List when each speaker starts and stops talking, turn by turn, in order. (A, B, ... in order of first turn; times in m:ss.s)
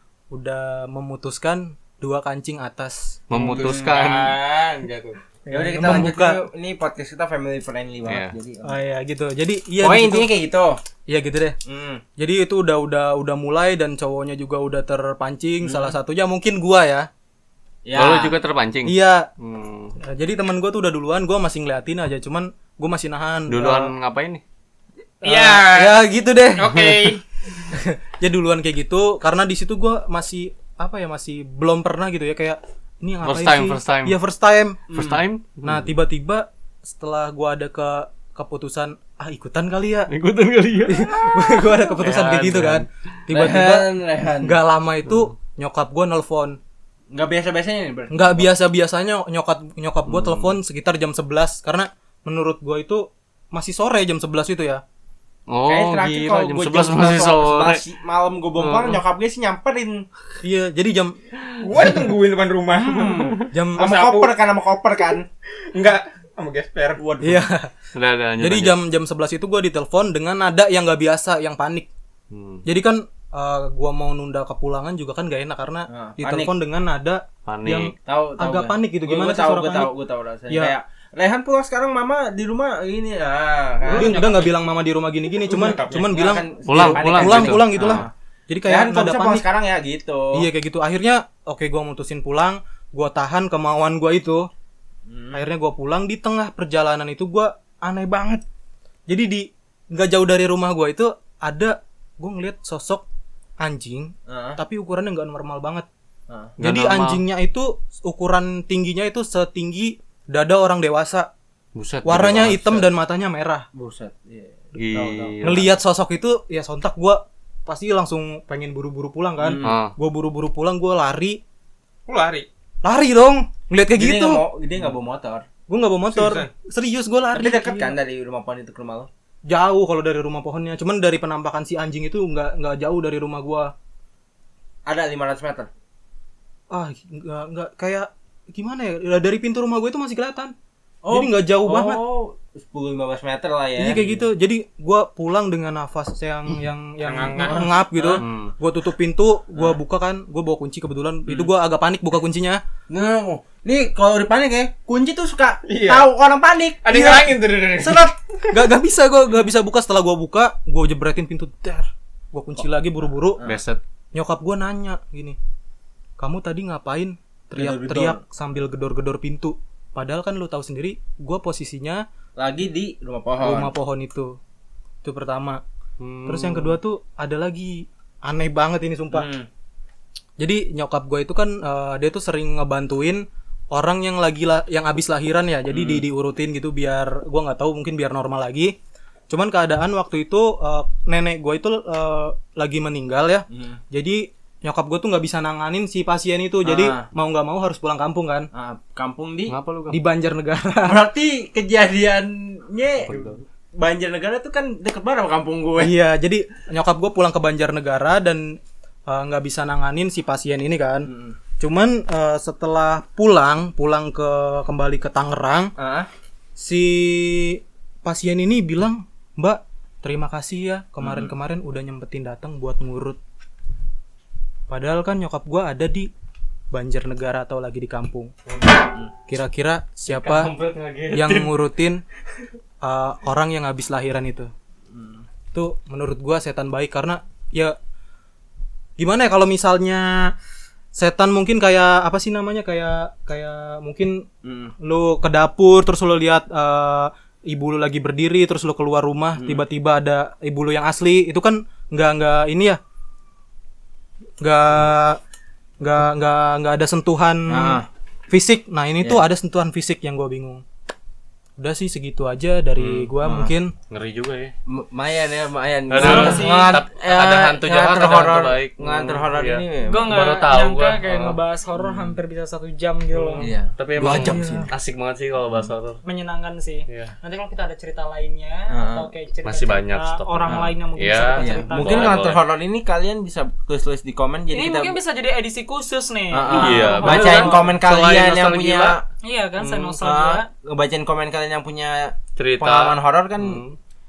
0:00.3-0:03.2 A
0:03.3-0:04.3 B
0:03.4-0:05.2 C
0:03.4-0:04.8 D
0:05.5-0:06.4 A
0:05.5-0:08.7 D
0:08.1-0:08.3 B
0:08.6-0:10.3 A
0:09.8-0:10.8 D
0:11.1-0:11.6 A
0:11.7-0:12.0 D
0:12.2-0:17.1 A
0:15.6-0:16.0 D
0:17.8-0:18.4 D
0:18.0-0:20.0 B
0:18.9-0:19.3 A
0:20.0-0:23.9 A
0:23.5-0:24.4 B
0:25.2-0:26.0 C
0:25.2-0:27.0 A
0:26.6-0:27.2 C
0:27.7-0:35.1 A
0:33.2-0:34.2 B
0:34.9-0:35.2 D
0:34.9-0:35.9 B
0:35.6-0:40.1 A
0:40.1-0:42.9 B
0:40.8-0:43.9 A
0:43.3-0:44.6 D
0:44.4-0:46.6 A
0:47.1-0:48.5 D
0:48.1-0:54.8 A
0:50.1-0:50.6 B
0:55.5-0:57.8 B
0:55.7-1:00.1 D
0:58.6-0:59.0 B
1:00.4-1:01.2 A
1:01.6-1:04.4 C
1:02.7-1:05.3 D
1:03.5-1:04.1 A
1:05.6-1:07.0 C
1:07.0-1:07.5 D
1:07.2-1:07.7 A
1:08.0-1:08.8 B
1:08.4-1:11.9 A
1:12.3-1:12.6 B
1:12.6-1:19.9 A
1:15.9-1:16.5 D
1:17.5-1:17.9 B
1:18.0-1:24.2 D
1:23.9-1:24.6 C
1:23.9-1:29.5 A
1:25.4-1:26.3 C
1:25.9-1:28.1 D
1:26.7-1:28.0 B
1:28.7-1:30.4 D
1:30.3-1:34.5 A
1:35.1-1:35.4 D
1:35.3-1:38.4 A
1:39.1-1:43.0 A
1:43.6-1:45.9 A
1:44.3-1:44.6 D
1:46.3-1:46.6 D
1:46.6-1:51.3 A
1:46.6-1:47.2 B
1:51.8-1:52.9 B
1:52.0-1:53.7 A
1:53.7-1:55.4 D
1:54.8-1:55.8 B
1:55.4-2:01.4 A
1:59.4-1:59.8 D
1:59.6-2:00.0 B
2:02.1-2:02.5 C
2:02.8-2:04.4 A
2:04.0-2:05.5 D
2:05.7-2:07.9 A
2:06.1-2:06.5 C
2:07.3-2:09.1 D
2:09.5-2:13.7 A
2:14.9-2:15.7 D
2:16.7-2:20.5 A
2:21.0-2:24.2 D
2:21.1-2:22.0 A
2:23.8-2:32.6 A
2:27.0-2:27.7 C
2:27.4-2:28.2 D
2:28.2-2:28.5 B
2:32.9-2:38.5 D
2:35.7-2:36.1 C
2:36.8-2:38.1 C
2:38.5-2:43.4 A
2:43.4-2:43.8 B
2:44.1-2:45.4 A
2:46.2-2:52.0 A
2:47.6-2:48.2 D
2:52.4-2:53.7 D
2:53.4-2:54.4 A
2:55.0-2:55.6 A
2:56.0-2:56.8 B
2:56.3-2:59.3 A
2:59.1-2:59.5 D
3:00.4-3:08.7 A
3:05.7-3:06.1 D
3:09.3-3:18.5 A
3:13.5-3:13.8 D
3:16.6-3:17.1 D
3:18.5-3:19.6 D
3:19.5-3:20.0 B
3:19.9-3:21.0 A
3:20.8-3:25.9 D
3:23.1-3:23.4 B
3:25.8-3:35.7 A
3:31.0-3:31.4 D
3:35.8-3:36.1 D
3:36.6-3:43.2 A
3:41.0-3:41.3 D
3:44.7-3:46.1 A
3:46.7-3:48.3 A
3:48.5-3:49.1 D
3:49.3-3:50.5 A
3:50.1-3:51.5 B
3:51.1-3:52.0 A
3:52.8-3:54.5 A
3:54.9-3:55.3 D
3:55.5-3:57.8 A
3:59.0-4:00.3 A
4:01.0-4:04.3 A
4:04.4-4:04.7 D
4:04.8-4:12.8 A
4:09.4-4:09.6 D
4:14.4-4:15.2 A
4:15.8-4:20.6 A
4:17.5-4:17.9 D
4:21.6-4:23.7 A
4:22.8-4:23.1 B
4:23.2-4:23.5 D
4:23.9-4:24.5 B
4:24.7-4:30.1 D
4:25.9-4:31.4 B
4:25.9-4:26.8 E
4:29.8-4:33.5 E
4:31.8-4:32.2 D
4:33.1-4:36.0 B
4:33.4-4:34.7 D
4:34.0-4:34.7 E
4:36.0-4:42.3 E
4:38.7-4:39.1 D
4:39.4-4:42.4 B
4:40.4-4:40.7 D
4:41.4-4:45.0 D
4:44.5-4:47.8 E
4:46.3-4:49.0 D
4:46.5-4:49.0 B
4:49.2-4:50.5 E
4:49.6-4:49.9 B
4:49.8-4:53.6 D
4:52.4-4:53.8 B